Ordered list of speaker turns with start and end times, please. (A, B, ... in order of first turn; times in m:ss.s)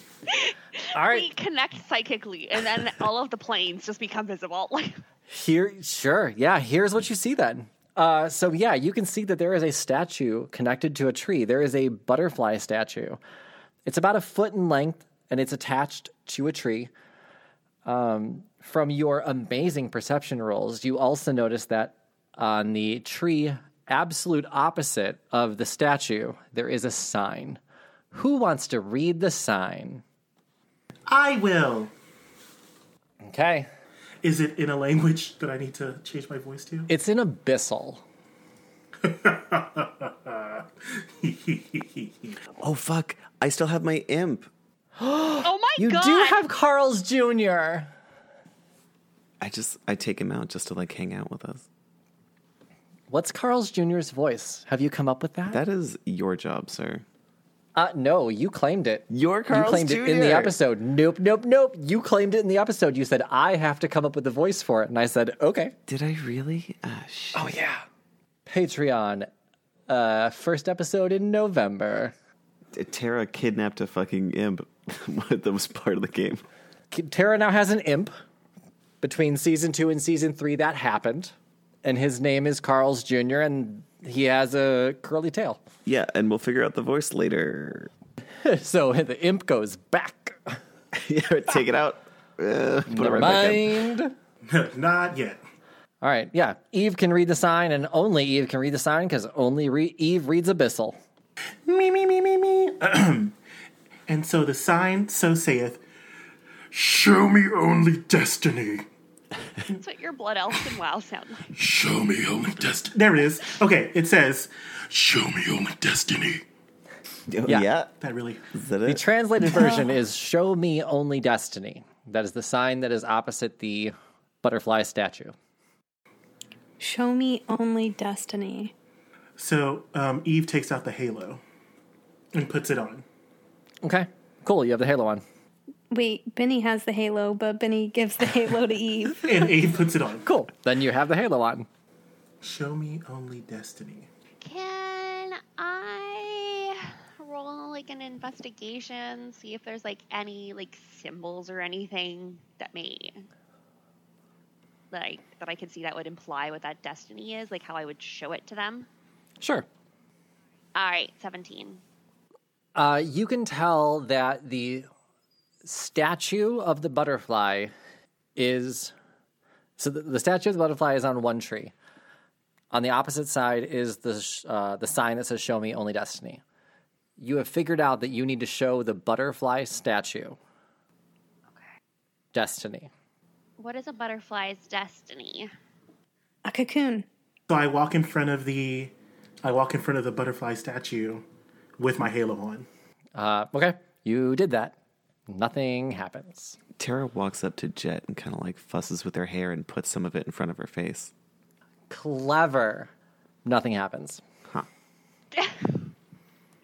0:00.3-0:05.0 A
0:00.9-0:01.3 B
0:05.3-0:13.2 B
0:13.8-0:16.9 B
0:17.8-0:27.6 B
0:28.1-0:30.0 B
0:31.1-0:31.9 C
0:33.2-0:33.7 B
0:34.2-0:36.9 C
0:36.9-0:38.0 B
0:39.0-0:42.4 C
0:42.6-0:44.5 D
0:45.0-0:47.9 B
0:45.4-0:46.4 A
0:49.4-0:51.6 D
0:53.1-0:55.6 B
0:55.5-0:57.0 D
0:57.7-1:05.7 B
0:59.1-1:00.5 D
1:05.9-1:07.5 D
1:07.3-1:07.8 B
1:08.4-1:09.3 B
1:09.9-1:12.1 B
1:12.7-1:16.4 D
1:16.9-1:18.1 B
1:19.0-1:21.3 B
1:21.8-1:25.6 B
1:25.8-1:27.9 D
1:28.4-1:30.6 B
1:30.9-1:33.8 D
1:32.9-1:34.1 B
1:34.4-1:35.4 C
1:36.0-1:41.0 B
1:41.6-1:43.4 C
1:44.1-1:45.8 C
1:46.7-1:48.8 C
1:49.7-1:51.5 A
1:51.5-1:56.4 C
1:57.3-1:57.9 D
1:58.0-1:58.4 C
1:58.5-1:59.0 D
1:58.8-2:05.3 B
2:06.8-2:08.7 E
2:09.4-2:11.4 C
2:12.3-2:13.0 C
2:13.8-2:15.2 B
2:15.9-2:19.5 E
2:19.2-2:20.2 C
2:20.2-2:21.7 B
2:22.4-2:24.1 C
2:24.4-2:33.2 A
2:34.9-2:38.9 A
2:39.4-2:39.7 B
2:40.7-2:41.8 A
2:42.8-2:44.9 B
2:45.6-2:47.7 B
2:48.4-2:48.9 B
2:49.8-2:51.7 B
2:52.7-2:56.4 B
2:57.2-3:00.4 B
3:02.3-3:02.9 B
3:03.6-3:05.5 A
3:06.4-3:07.0 E
3:07.5-3:11.2 C
3:11.8-3:12.7 C
3:13.1-3:14.8 B
3:15.3-3:16.6 B
3:16.8-3:21.1 D
3:21.9-3:22.9 B
3:23.4-3:24.2 B
3:25.3-3:25.9 A